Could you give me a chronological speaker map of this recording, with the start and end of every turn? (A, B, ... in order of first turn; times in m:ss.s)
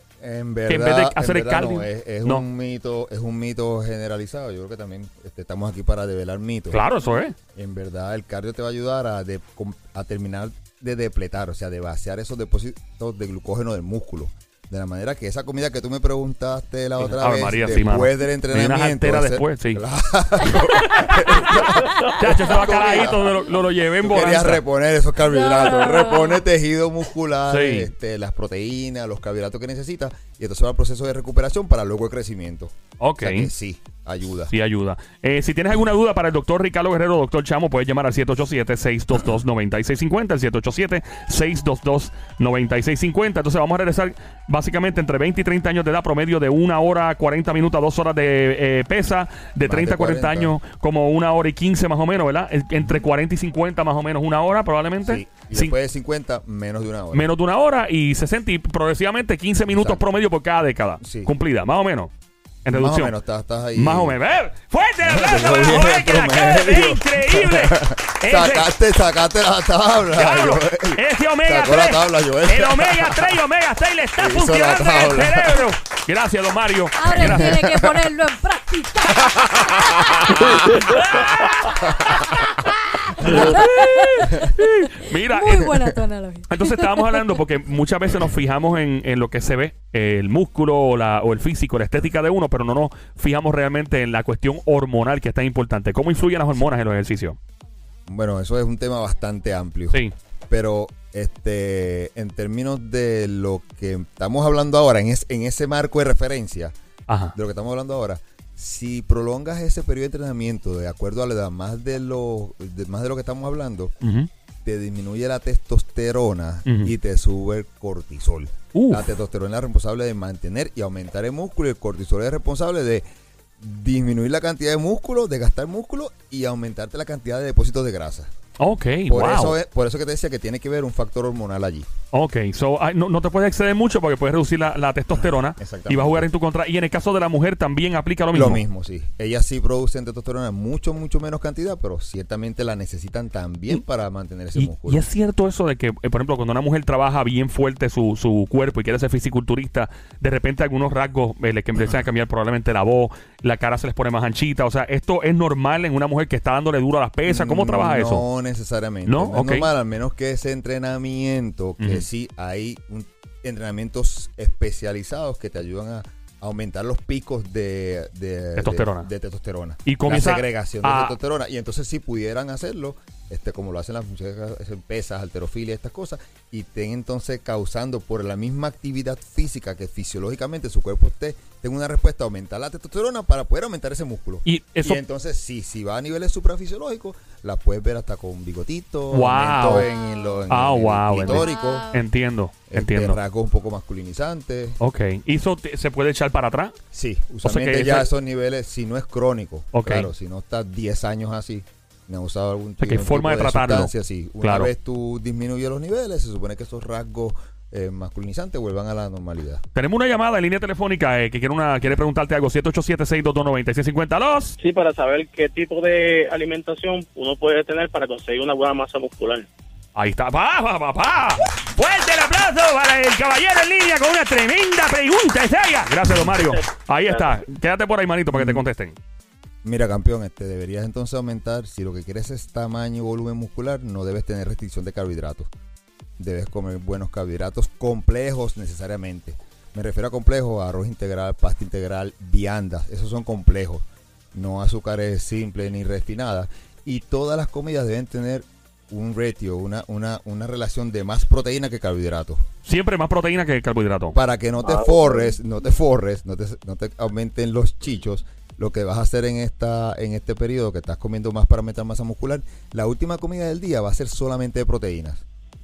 0:00.2-0:06.8 A
0:00.7-0:02.4 B
0:06.7-0:07.4 B
0:07.5-0:23.4 A
0:17.0-0:19.8 B
0:20.7-0:24.6 B
0:24.0-0:34.5 A
0:25.3-0:26.4 C
0:27.5-0:27.9 B
0:33.0-0:33.5 B
0:34.5-0:55.7 B
0:49.6-0:50.6 A
0:55.0-0:57.3 A
0:57.1-1:02.1 B
0:59.7-1:00.0 A
1:01.0-1:01.3 A
1:02.6-1:03.1 B
1:02.7-1:04.2 A
1:03.8-1:08.7 B
1:05.0-1:13.4 A
1:10.1-1:17.6 B
1:14.2-1:15.6 A
1:17.0-1:20.4 C
1:17.2-1:17.9 A
1:19.3-1:20.4 A
1:20.3-1:21.9 B
1:21.9-1:22.2 A
1:23.1-1:25.7 B
1:23.1-1:24.5 C
1:23.2-1:23.4 A
1:25.0-1:27.3 C
1:26.5-1:37.4 B
1:38.1-1:46.7 A
1:47.1-1:47.3 B
1:47.3-1:53.9 A
1:54.0-1:54.3 B
1:54.6-2:03.0 A
1:56.6-1:56.9 B
1:58.7-1:59.1 B
2:03.6-2:08.3 A
2:08.6-2:09.6 B
2:09.1-2:11.9 A
2:12.1-2:18.6 B
2:15.2-2:16.3 A
2:18.3-2:25.0 A
2:24.5-2:38.2 B
2:37.3-3:11.8 A
2:39.0-2:39.7 B
2:41.8-2:42.0 B
2:48.6-2:49.1 B
2:49.8-2:51.1 B
3:04.4-3:05.0 B
3:09.1-3:09.9 B
3:09.8-3:10.3 C
3:10.5-3:13.2 B
3:11.2-3:12.0 C
3:12.7-3:14.8 A
3:14.8-3:16.7 B
3:16.9-3:29.6 A
3:17.4-3:18.1 B
3:19.7-3:20.1 B
3:22.8-3:24.7 B
3:29.7-3:34.6 B
3:34.6-3:39.5 D
3:40.0-3:49.0 B
3:48.3-3:48.6 A
3:49.6-3:55.5 A
3:56.2-4:12.4 A
4:12.6-4:14.2 B
4:14.1-4:25.2 A
4:14.6-4:15.2 D